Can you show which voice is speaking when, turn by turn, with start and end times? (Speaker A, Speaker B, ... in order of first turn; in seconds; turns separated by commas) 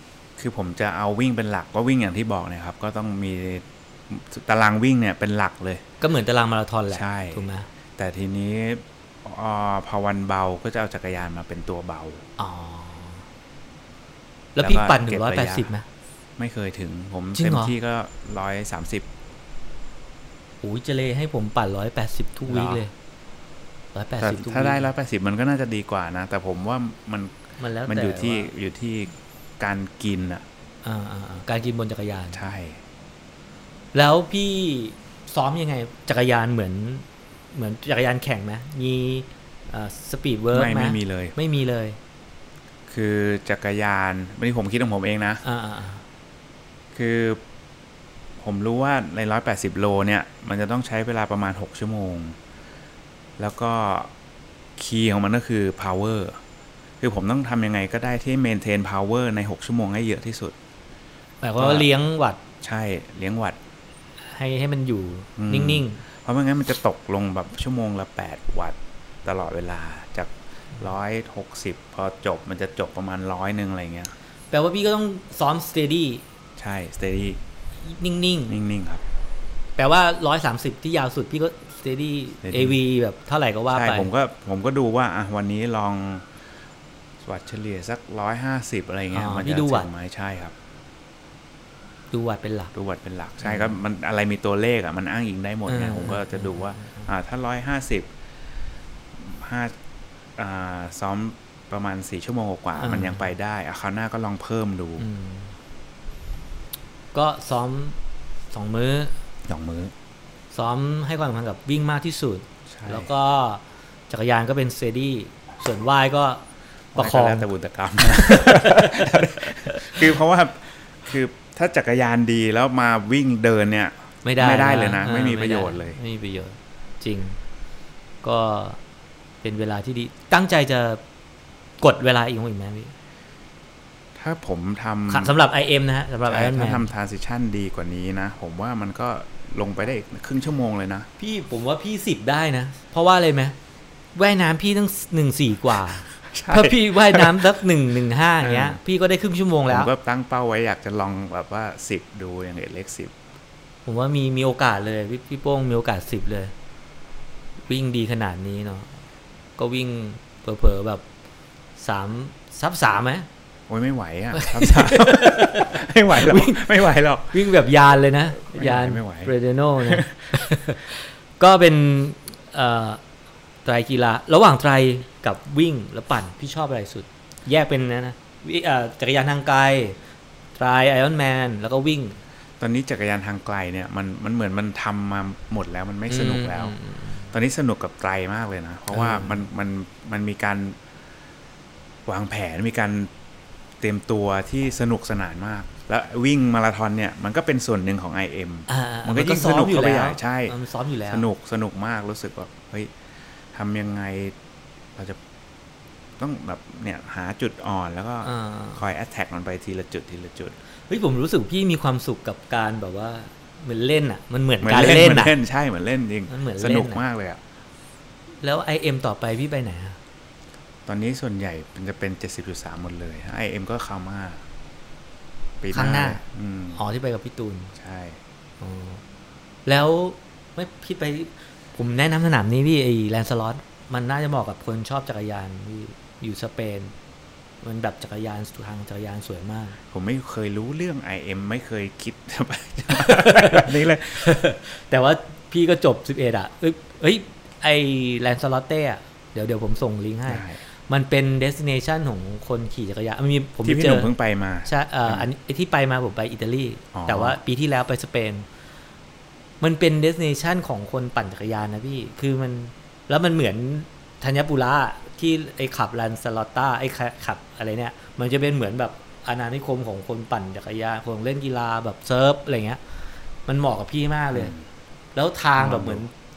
Speaker A: 0.4-5.8, Speaker B: 6.0-7.7, Speaker A: 6.9-12.2, Speaker B: 12.4-13.2, Speaker B: 14.5-15.8, Speaker A: 14.6-15.7, Speaker A: 16.4-19.1, Speaker B: 17.3-17.7, Speaker B: 20.6-22.9, Speaker A: 22.4-22.8, Speaker B: 23.9-24.9, Speaker A: 24.2-30.4, Speaker B: 27.6-28.5, Speaker B: 30.8-32.4, Speaker A: 32.3-32.8, Speaker B: 33.9-42.0, Speaker A: 40.5-41.3, Speaker A: 42.9-45.4, Speaker B: 45.4-46.0, Speaker A: 46.9-47.4, Speaker A: 48.4-52.4, Speaker A: 53.4-54.1, Speaker A: 54.8-56.4, Speaker A: 57.0-60.5, Speaker B: 61.4-62.4, Speaker A: 61.6-61.9, Speaker A: 62.6-63.6, Speaker B: 64.3-66.0, Speaker A: 65.4-74.1, Speaker B: 74.5-76.2, Speaker A: 76.6-77.4, Speaker B: 77.8-78.5, Speaker A: 78.5-79.0, Speaker B: 79.8-84.1, Speaker A: 82.4-82.8, Speaker A: 83.7-86.2, Speaker A: 87.2-90.5, Speaker B: 89.1-89.9, Speaker B: 92.1-92.7, Speaker A: 92.7-98.1, Speaker B: 93.4-93.8, Speaker B: 95.7-97.1, Speaker A: 99.1-99.7, Speaker A: 100.4-105.0, Speaker B: 102.8-103.3, Speaker B: 105.0-105.5, Speaker B: 107.1-108.0, Speaker B: 108.5-109.1, Speaker A: 109.5-109.9, Speaker B: 110.5-116.4, Speaker A: 112.7-113.1, Speaker A: 116.9-126.0, Speaker B: 117.0-117.5, Speaker B: 118.0-120.1, Speaker B: 124.2-127.4, Speaker B: 128.2-128.8, Speaker B: 129.4-131.0, Speaker B: 131.8-132.9, Speaker A: 134.2-135.3, Speaker B: 135.1-136.9, Speaker A: 136.2-141.1, Speaker B: 141.2-143.5, Speaker B: 144.1-149.9, Speaker A: 146.2-147.5, Speaker A: 148.4-148.8, Speaker A: 149.7-153.1, Speaker B: 153.8-156.5, Speaker B: 157.7-159.0, Speaker B: 159.6-161.0, Speaker B: 161.8-163.3, Speaker A: 163.7-167.5, Speaker B: 164.3-166.6, Speaker B: 167.3-173.0, Speaker A: 168.3-170.6, Speaker B: 173.6-180.0, Speaker B: 180.6-182.2, Speaker A: 182.6-186.7, Speaker B: 186.1-187.3, Speaker A: 187.3-190.8, Speaker B: 188.9-189.4, Speaker A: 192.1-193.1, Speaker A: 193.8-200.5, Speaker B: 198.7-201.3, Speaker A: 201.1-202.9, Speaker A: 203.5-204.3, Speaker A: 206.2-210.6, Speaker B: 208.2-208.8, Speaker B: 210.9-215.3, Speaker A: 214.6-217.4, Speaker B: 216.3-217.0, Speaker B: 218.4-220.0, Speaker A: 220.8-224.4, Speaker A: 225.6-226.8, Speaker B: 225.7-226.2, Speaker B: 226.8-227.7, Speaker A: 227.8-228.2, Speaker B: 228.6-229.0, Speaker B: 229.7-236.9, Speaker B: 237.6-239.8, Speaker A: 239.9-244.4, Speaker B: 242.9-254.1, Speaker A: 250.3-250.6, Speaker A: 253.6-255.3, Speaker B: 254.7-258.4, Speaker A: 256.9-257.4, Speaker B: 259.6-272.8, Speaker B: 273.4-274.5, Speaker A: 274.3-274.6, Speaker B: 275.1-276.1, Speaker A: 275.6-276.0